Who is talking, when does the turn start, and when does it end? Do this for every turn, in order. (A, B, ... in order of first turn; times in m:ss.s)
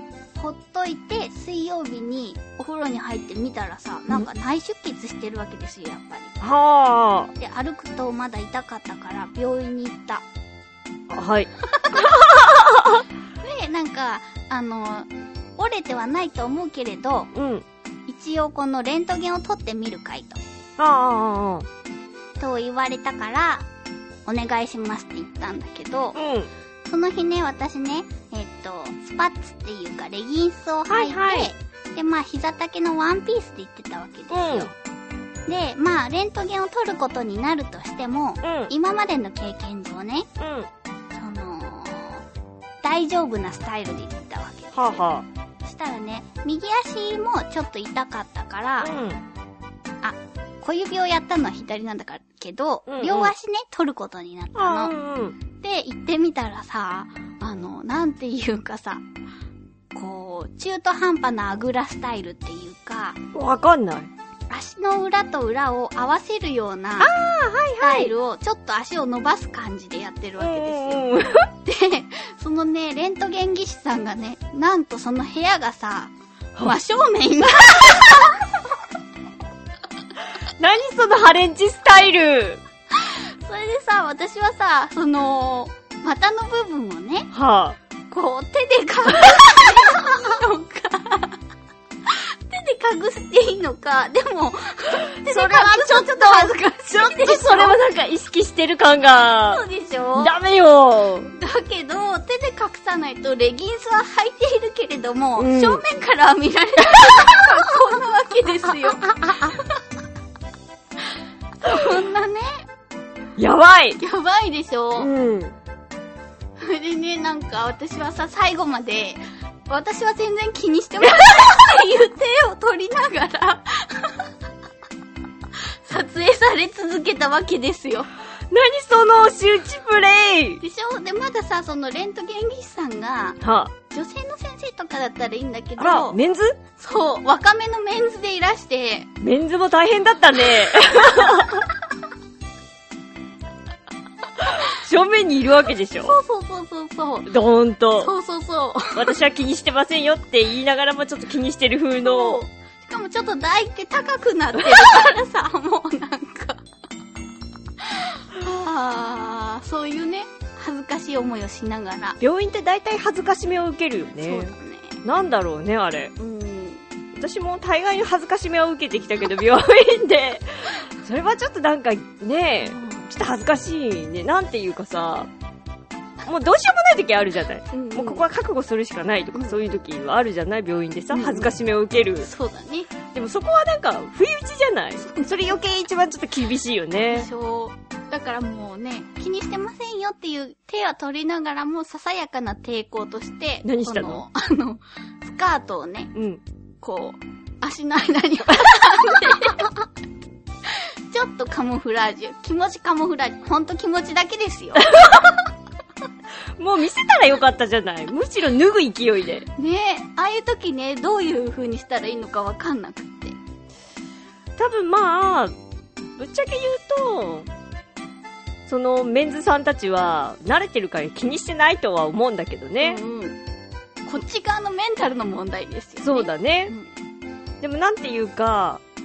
0:00.3-0:06.4 A
0:06.4-0:07.3 B
0:07.4-0:10.2 A
0:11.1-0:13.0 B
0:11.8-0:12.1 A
0:13.4-0:17.3 A
0:17.3-0:17.6 B
0:18.1-0:20.4 A
0:20.8-0:21.7 B
0:22.4-0:23.7 A
0:24.3-0:26.2 A
0:26.1-0:26.5 B
0:26.9-0:34.7 A
0:30.9-0:31.5 B
0:34.3-0:34.7 B
0:35.4-0:40.3 A
0:38.4-0:38.7 B
0:40.4-0:40.7 B
0:41.1-0:42.2 A
0:42.8-0:45.1 A
0:44.7-0:45.3 B
0:45.6-0:48.9 A
0:48.8-0:49.2 B
0:50.0-0:54.9 A
0:52.9-0:53.3 B
0:54.6-0:55.4 B
0:55.6-0:59.0 A
0:59.9-1:03.2 A
1:03.3-1:04.1 B
1:04.5-1:07.1 A
1:07.0-1:08.1 B
1:07.8-1:11.0 A
1:10.4-1:11.5 B
1:11.6-1:18.4 A
1:20.6-1:22.6 B
1:23.0-1:27.3 A
1:27.3-1:27.8 B
1:28.1-1:31.4 A
1:32.0-1:37.8 A
1:35.1-1:39.6 B
1:39.4-1:40.4 A
1:40.2-1:41.3 B
1:41.3-1:49.8 A
1:45.4-1:45.8 B
1:51.6-1:52.6 A
1:53.4-1:54.0 B
1:54.0-1:55.1 A
1:55.0-1:55.6 B
1:56.6-2:04.3 A
2:05.8-2:08.1 A
2:08.5-2:10.6 B
2:10.6-2:16.2 A
2:13.4-2:13.7 B
2:15.8-2:16.6 B
2:16.8-2:19.1 A
2:19.2-2:21.6 B
2:24.5-2:26.2 B
2:26.0-2:27.3 A
2:27.2-2:28.1 B
2:28.0-2:29.1 A
2:28.9-2:32.4 B
2:32.0-2:36.6 A
2:34.6-2:34.9 B
2:37.8-2:42.2 A
2:42.2-2:46.1 B
2:44.1-2:45.0 A
2:46.2-2:46.8 A
2:47.1-2:55.3 B
2:52.6-2:53.1 A
2:56.2-3:02.3 B
2:57.7-2:58.3 A
2:59.3-2:59.8 A
3:01.1-3:01.5 A
3:02.2-3:02.9 A
3:03.1-3:07.3 B
3:05.0-3:05.6 A
3:07.1-3:16.1 A
3:13.6-3:14.2 B
3:16.1-3:16.4 B
3:16.8-3:19.8 A
3:20.7-3:25.2 A
3:24.9-3:25.3 B
3:26.6-3:29.5 B
3:29.6-3:33.4 A
3:34.6-3:35.5 B
3:36.2-3:37.5 B
3:38.7-3:43.0 B
3:42.8-3:43.4 A
3:44.1-3:46.9 A
3:46.0-3:46.7 B
3:47.6-3:48.8 B